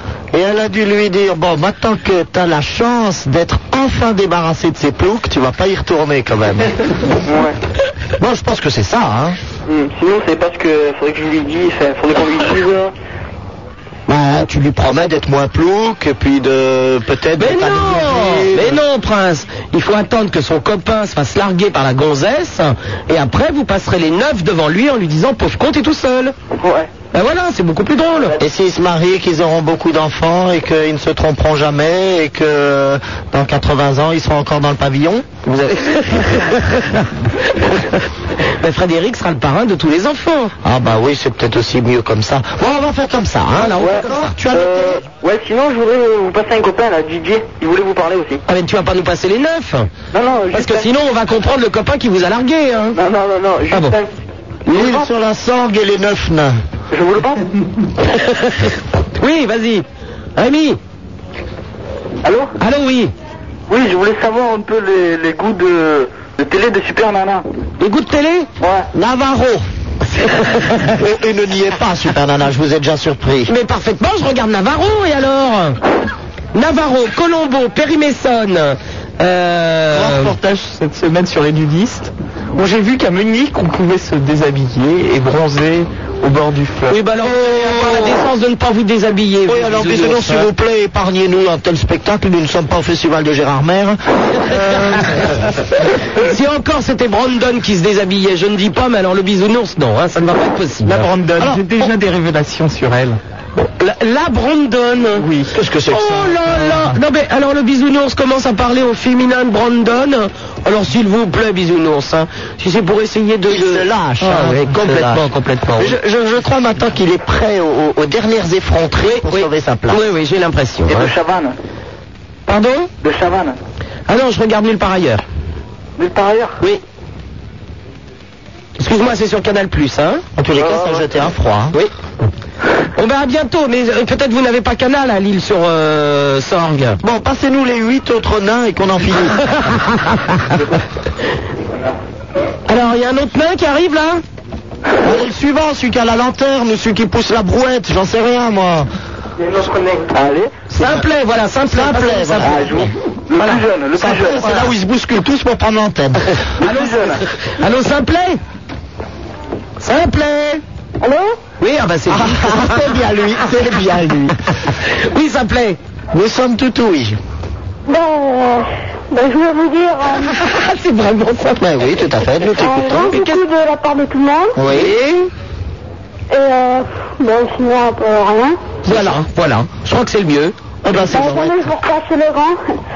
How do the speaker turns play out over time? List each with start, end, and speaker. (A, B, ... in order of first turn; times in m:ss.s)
0:00.3-0:06.7 A
0:07.3-0:07.6 B
0:08.2-0:09.4 A
0:09.7-0:12.9 B
0:14.1-0:18.8 A
0:17.4-0:26.4 C
0:26.6-0:26.9 B
0:27.1-0:28.4 C
0:28.4-0:35.3 A
0:35.4-0:38.0 C
0:38.6-0:40.5 C
0:40.6-0:45.0 A
0:43.6-0:44.3 C
0:43.8-0:48.4 B
0:48.5-0:49.9 C
0:50.1-0:50.9 B
0:50.5-0:53.0 C
0:52.9-0:54.1 B
0:54.7-0:56.6 A
0:54.7-0:55.1 B
0:56.9-0:57.4 B
0:58.1-0:59.8 C
1:00.4-1:00.8 C
1:02.2-1:02.5 B
1:02.6-1:03.1 C
1:03.7-1:07.4 B
1:07.8-1:08.5 C
1:08.6-1:08.9 B
1:08.9-1:09.6 A
1:10.8-1:13.5 A
1:13.5-1:15.8 C
1:16.6-1:20.3 C
1:19.9-1:20.4 A
1:20.4-1:22.1 D
1:22.7-1:26.9 D
1:26.9-1:30.5 C
1:27.4-1:28.2 A
1:29.5-1:35.3 A
1:36.2-1:41.1 C
1:41.0-1:43.1 D
1:41.4-1:41.7 A
1:43.6-1:45.3 C
1:45.5-1:46.9 A
1:45.9-1:56.0 C
1:53.5-1:55.2 A
1:55.8-2:00.0 A
1:59.0-2:01.1 C
2:00.9-2:01.6 B
2:02.5-2:02.9 C
2:03.0-2:03.6 B
2:04.1-2:05.2 C
2:06.0-2:06.6 B
2:08.8-2:10.2 C
2:10.4-2:11.8 A
2:10.6-2:11.1 B
2:13.0-2:17.0 C
2:17.0-2:19.5 A
2:22.7-2:24.2 C
2:25.0-2:28.9 A
2:29.5-2:30.6 B
2:30.7-2:33.6 C
2:30.7-2:31.1 A
2:31.7-2:32.9 A
2:32.4-2:34.7 B
2:33.9-2:36.3 A
2:36.6-2:38.4 C
2:36.6-2:37.2 B
2:39.8-2:40.6 C
2:41.6-2:42.9 C
2:42.1-2:44.4 A
2:44.9-2:45.8 C
2:46.1-2:47.2 A
2:47.9-2:50.3 E
2:50.3-2:51.6 C
2:51.6-2:53.1 A
2:52.6-2:53.4 C
2:52.6-2:54.6 E
2:54.6-2:55.0 A
2:54.7-2:55.2 C
2:56.3-2:58.6 E
2:58.8-3:00.5 C
3:00.8-3:01.7 A
3:01.1-3:02.6 E